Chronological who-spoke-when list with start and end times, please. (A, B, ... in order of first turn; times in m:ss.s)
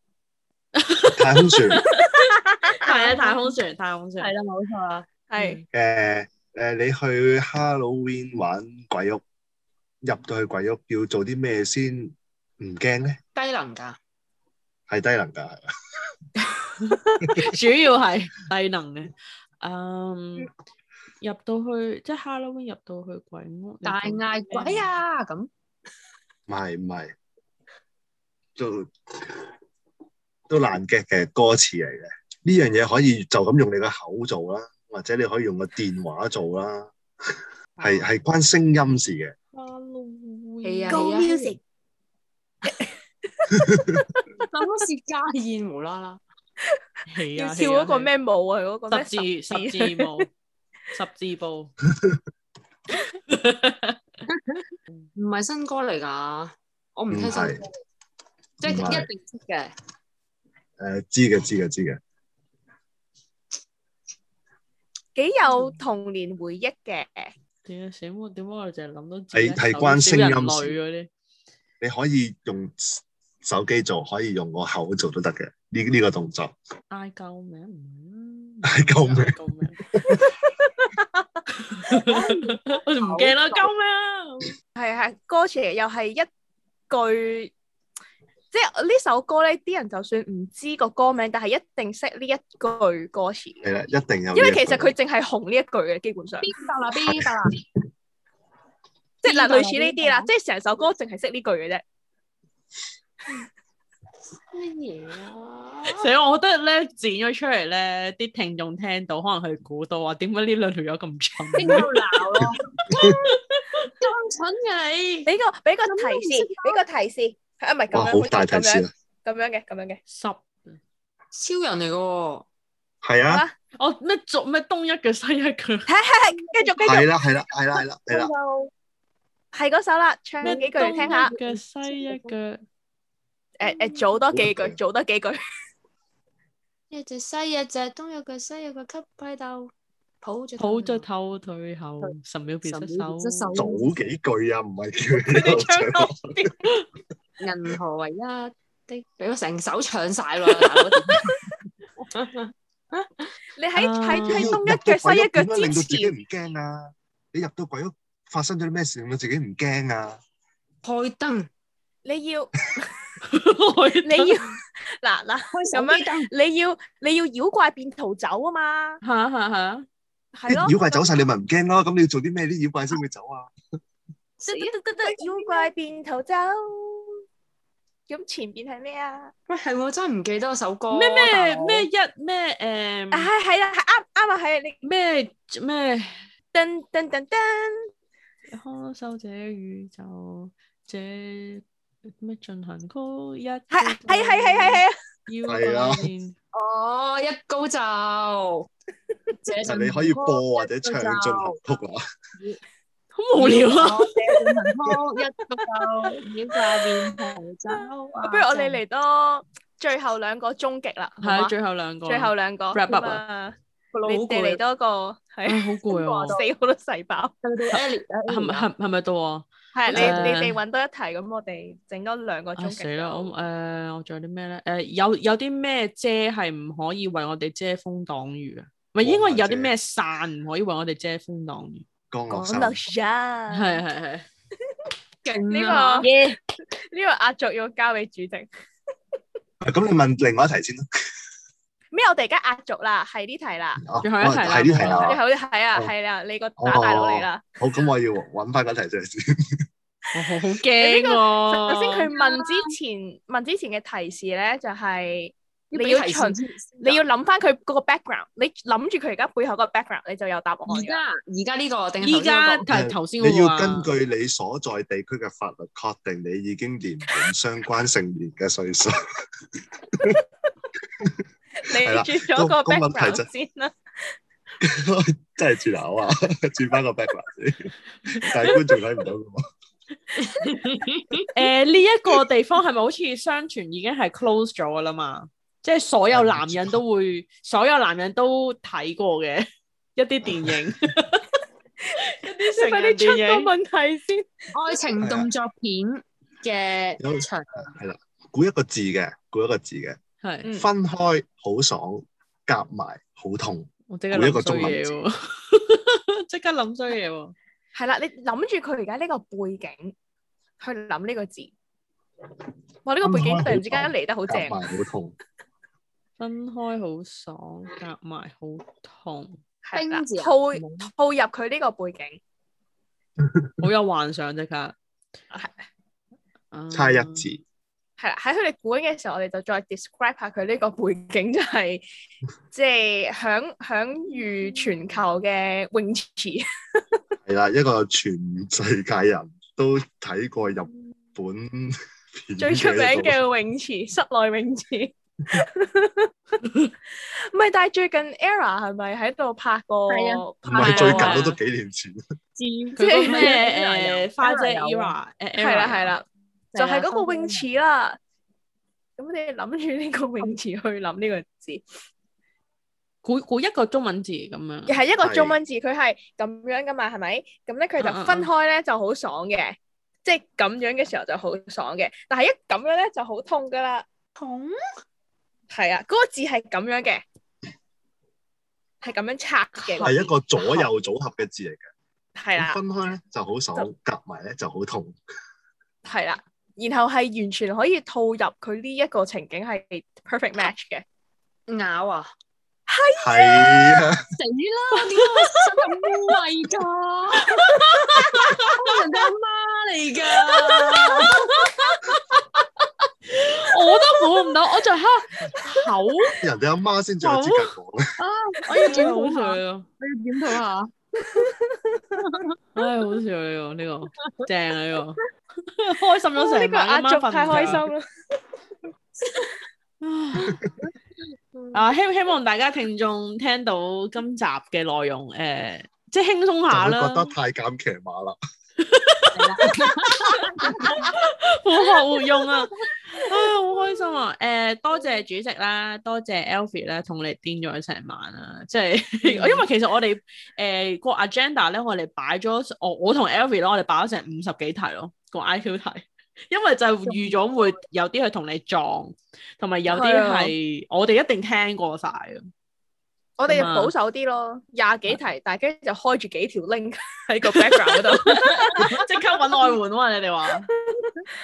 0:00.7-0:04.3 A
0:01.1-0:01.8 B
0:01.9-0:03.4 C
0:04.2-0:05.6 D
0:05.3-0:05.6 C
0:05.7-0:09.2 B
0:10.0-0:13.2 B
0:13.3-0:14.0 D
0:14.9-0:15.6 B
0:16.4-0:20.5 A
0:21.2-0:24.9 A
0:23.8-0:25.5 D
0:26.5-0:27.1 B
0:28.6-0:29.5 B
0:30.5-0:36.9 B
0:37.8-0:38.1 A
0:37.8-0:39.3 B
0:39.5-0:41.1 A
0:40.6-0:41.5 D
0:40.9-0:41.6 C
0:42.7-0:44.2 C
0:44.5-0:46.2 D
0:47.1-0:48.1 A
0:47.3-0:50.2 C
0:48.9-0:50.3 A
0:50.9-0:51.7 A
0:53.3-0:54.0 A
0:54.3-0:57.7 D
0:57.1-0:57.6 B
0:58.6-0:59.7 D
0:58.6-0:59.1 B
1:00.8-1:02.0 B
1:05.1-1:07.3 C
1:07.6-1:11.1 A
1:09.3-1:10.8 B
1:11.8-1:16.5 B
1:16.9-1:19.8 A
1:18.6-1:19.3 B
1:19.9-1:20.3 B
1:20.2-1:21.4 C
1:21.6-1:24.5 A
1:22.0-1:23.7 D
1:24.7-1:26.3 C
1:26.9-1:27.5 C
1:28.5-1:33.6 C
1:33.6-1:34.9 B
1:34.3-1:36.5 C
1:36.4-1:37.6 D
1:39.2-1:41.8 C
1:39.2-1:40.3 D
1:44.5-1:46.1 D
1:45.9-1:53.9 A
1:51.5-1:55.3 D
1:52.9-1:53.2 B
1:55.2-2:00.0 C
1:55.9-1:56.8 D
1:57.9-1:58.9 B
2:00.1-2:00.8 A
2:01.3-2:02.4 D
2:03.0-2:03.4 B
2:03.2-2:03.5 C
2:03.8-2:05.9 A
2:05.9-2:07.0 C
2:06.2-2:07.0 D
2:06.8-2:08.3 B
2:08.1-2:08.7 D
2:09.5-2:11.3 C
2:10.4-2:12.4 D
2:10.4-2:12.6 A
2:13.6-2:15.4 C
2:13.7-2:14.0 D
2:14.3-2:14.8 B
2:16.9-2:21.0 D
2:20.6-2:23.6 A
2:22.0-2:23.9 D
2:23.5-2:26.2 B
2:25.3-2:26.6 C
2:27.4-2:33.3 D
2:33.6-2:36.1 C
2:33.7-2:34.6 A
2:34.2-2:40.2 B
2:40.8-2:41.5 D
2:42.0-2:42.9 C
2:43.3-2:44.4 A
2:44.0-2:49.0 C
2:45.5-2:46.3 D
2:49.0-2:49.8 A
2:50.3-2:51.2 C
2:50.5-2:53.5 B
2:54.4-2:55.7 D
2:54.5-2:57.2 C
2:58.1-2:59.3 C
2:59.5-3:01.9 D
3:00.9-3:03.3 A
3:03.1-3:04.8 C
3:04.8-3:06.2 A
3:06.5-3:07.9 C
3:08.5-3:16.3 A
3:13.7-3:15.0 C
3:15.5-3:16.1 B
3:16.5-3:18.7 D
3:19.4-3:21.6 D
3:19.6-3:22.0 B
3:23.2-3:24.1 A
3:23.3-3:28.8 D
3:25.6-3:26.2 C
3:27.8-3:31.5 C
3:31.2-3:33.2 A
3:32.0-3:37.3 C
3:33.9-3:34.6 D
3:35.4-3:36.4 A
3:35.9-3:36.4 D
3:37.4-3:38.7 D
3:38.3-3:40.6 A
3:39.7-3:43.3 C
3:39.9-3:40.4 D
3:42.6-3:51.8 A
3:49.0-3:49.7 B
3:52.1-3:52.8 B
3:52.3-3:53.8 C
3:53.5-3:54.2 A
3:55.2-3:56.1 D
3:55.5-3:56.1 C
3:56.0-3:56.4 A
3:56.7-3:58.5 C
3:59.6-4:00.8 B
4:01.9-4:03.8 C
4:03.8-4:05.2 B
4:04.0-4:05.2 A
4:05.0-4:07.4 C
4:06.6-4:09.6 B
4:10.1-4:12.1 A
4:10.8-4:21.0 C
4:12.1-4:12.7 D
4:15.7-4:17.0 D
4:20.7-4:22.6 D
4:22.0-4:23.9 A
4:22.7-4:29.0 B
4:30.0-4:30.2 C
4:31.6-4:33.7 C
4:31.8-4:33.3 B
4:34.6-4:39.4 B
4:38.2-4:38.6 A
4:40.2-4:41.3 D
4:41.3-4:51.3 A
4:46.1-4:46.8 B
4:51.9-4:54.7 C
4:52.2-4:53.5 A
4:54.5-4:57.7 D
4:55.0-4:55.3 B
4:57.0-5:00.0 B
5:00.2-5:00.5 A
5:00.5-5:04.9 B
5:03.9-5:07.3 A
5:07.7-5:09.9 C
5:10.6-5:11.5 C
5:12.8-5:14.5 C
5:13.0-5:15.2 B
5:16.2-5:19.4 A
5:19.6-5:22.2 C
5:19.7-5:20.9 D
5:23.2-5:23.5 B
5:23.6-5:24.7 A
5:26.5-5:27.3 A
5:26.7-5:27.4 B
5:28.0-5:31.8 C
5:32.5-5:36.4 C
5:37.2-5:43.2 B
5:42.4-5:46.1 C
5:46.4-5:46.7 A
5:47.0-5:51.0 C
5:49.9-5:51.2 D
5:50.4-5:52.0 B
5:50.6-5:51.4 A
5:52.4-5:55.0 D
5:52.8-5:53.4 C
5:52.8-5:55.9 A
5:55.4-5:58.0 C
5:56.5-5:57.4 D
5:59.0-6:01.6 C
6:03.0-6:04.7 A
6:04.7-6:13.8 C
6:05.0-6:05.4 B
6:07.8-6:08.3 A
6:14.2-6:14.6 D
6:15.5-6:17.0 C
6:18.8-6:20.7 C
6:19.8-6:21.6 B
6:22.2-6:22.6 C
6:22.4-6:25.0 B
6:25.8-6:30.8 C
6:31.5-6:32.1 D
6:32.7-6:33.7 C
6:33.0-6:34.0 B
6:34.2-6:37.6 D
6:34.8-6:35.7 A
6:37.2-6:38.8 A
6:38.2-6:41.5 D
6:40.1-6:42.4 A
6:43.1-6:46.2 A
6:46.2-6:47.9 B
6:47.0-6:47.5 A
6:48.0-6:51.2 D
6:48.4-6:49.7 A
6:51.0-6:52.0 C
6:52.0-6:52.2 D
6:52.5-6:57.6 A
6:56.2-6:57.8 C
6:57.3-6:57.6 D
6:59.0-6:59.3 D
6:59.8-7:00.4 A
7:01.3-7:01.7 D
7:01.5-7:07.1 A
7:06.5-7:08.2 B
7:08.6-7:09.5 A
7:09.1-7:11.0 D
7:10.2-7:32.3 A
7:19.0-7:19.4 D
7:26.8-7:27.6 D
7:29.7-7:30.3 C
7:33.2-7:38.8 C
7:33.3-7:33.7 A
7:37.2-7:40.5 A
7:38.4-7:38.8 D
7:40.5-7:40.9 C